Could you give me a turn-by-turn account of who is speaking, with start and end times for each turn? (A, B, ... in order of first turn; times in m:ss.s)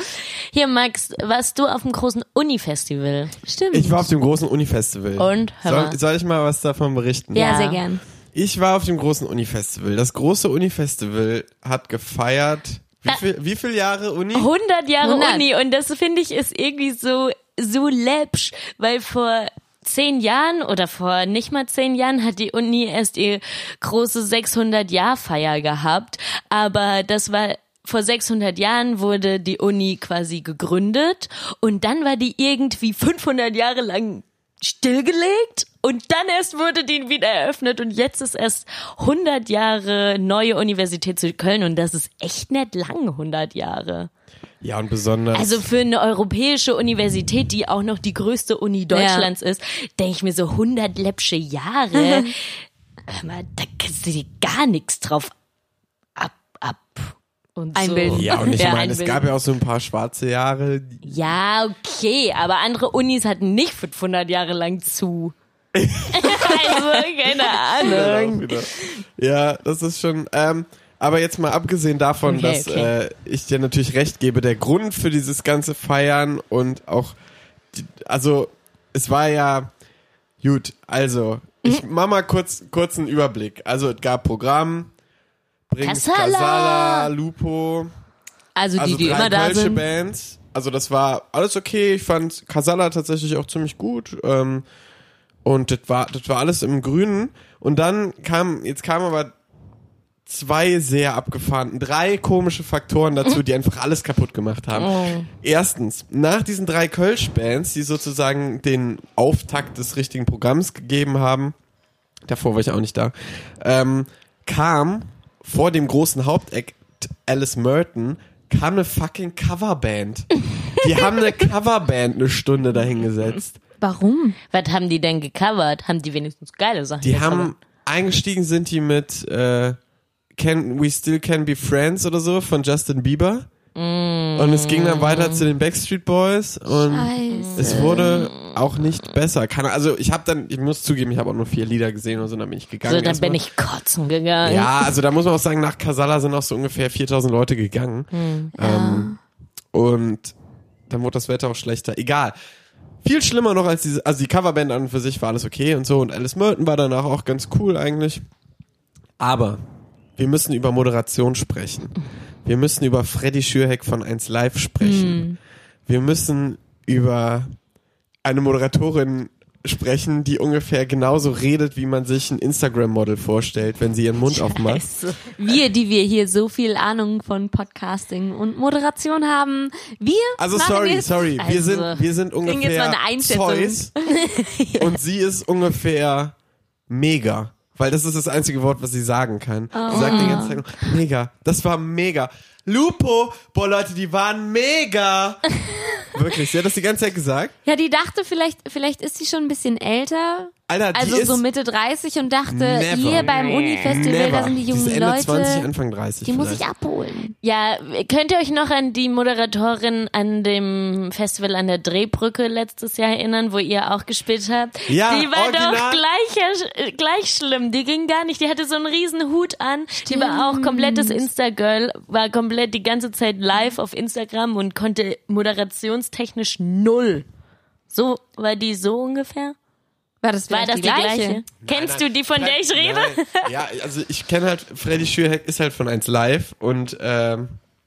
0:00.5-0:03.3 A
0:03.4-0:04.1 B
0:03.7-0:07.5 C
0:05.2-0:06.0 A
0:07.3-0:08.0 B
0:07.3-0:07.8 A
0:08.3-0:14.5 C
0:14.3-0:44.1 A
0:15.0-0:15.4 B
0:44.6-0:45.6 C
0:45.3-0:55.3 A
0:48.9-0:49.3 B
0:52.0-0:52.3 B
0:56.2-0:59.3 A
0:57.8-0:58.8 B
0:58.1-1:01.0 C
1:01.0-1:05.3 A
1:05.7-1:17.2 C
1:06.1-1:09.0 A
1:12.2-1:12.9 A
1:17.7-1:19.7 C
1:20.4-1:24.9 C
1:25.7-1:27.9 C
1:25.8-1:27.1 A
1:28.6-1:29.8 B
1:28.8-1:34.6 C
1:35.4-1:39.3 C
1:40.2-1:51.5 C
1:44.7-1:45.3 A
1:52.2-2:03.6 C
2:03.8-2:04.4 B
2:04.5-2:07.5 A
2:07.0-2:09.8 C
2:10.3-2:13.5 C
2:13.7-2:15.4 A
2:14.4-2:23.4 C
2:16.8-2:18.1 B
2:17.3-2:18.6 A
2:22.8-2:24.9 A
2:24.4-2:29.1 C
2:28.1-2:28.5 A
2:28.6-2:29.2 B
2:29.7-2:30.3 C
2:30.9-2:32.3 C
2:33.0-2:38.2 C
2:39.2-2:39.6 C
2:40.2-2:45.2 C
2:44.8-2:45.4 B
2:45.9-2:47.5 C
2:48.2-2:54.8 C
2:54.2-2:55.3 A
2:55.4-3:01.2 B
3:00.4-3:03.9 C
3:01.4-3:02.0 A
3:02.4-3:04.1 B
3:04.1-3:04.9 A
3:04.8-3:06.3 C
3:06.9-3:15.5 C
3:09.7-3:10.6 B
3:09.9-3:10.5 A
3:16.1-3:17.5 C
3:17.6-3:25.7 B
3:20.7-3:21.4 C
3:22.5-3:26.6 C
3:23.2-3:23.9 A
3:26.2-3:27.3 B
3:27.4-3:47.2 A
3:34.9-3:36.0 C
3:40.0-3:41.2 B
3:47.9-3:49.6 A
3:50.2-3:51.4 B
3:50.5-3:53.5 A
3:51.6-3:57.6 C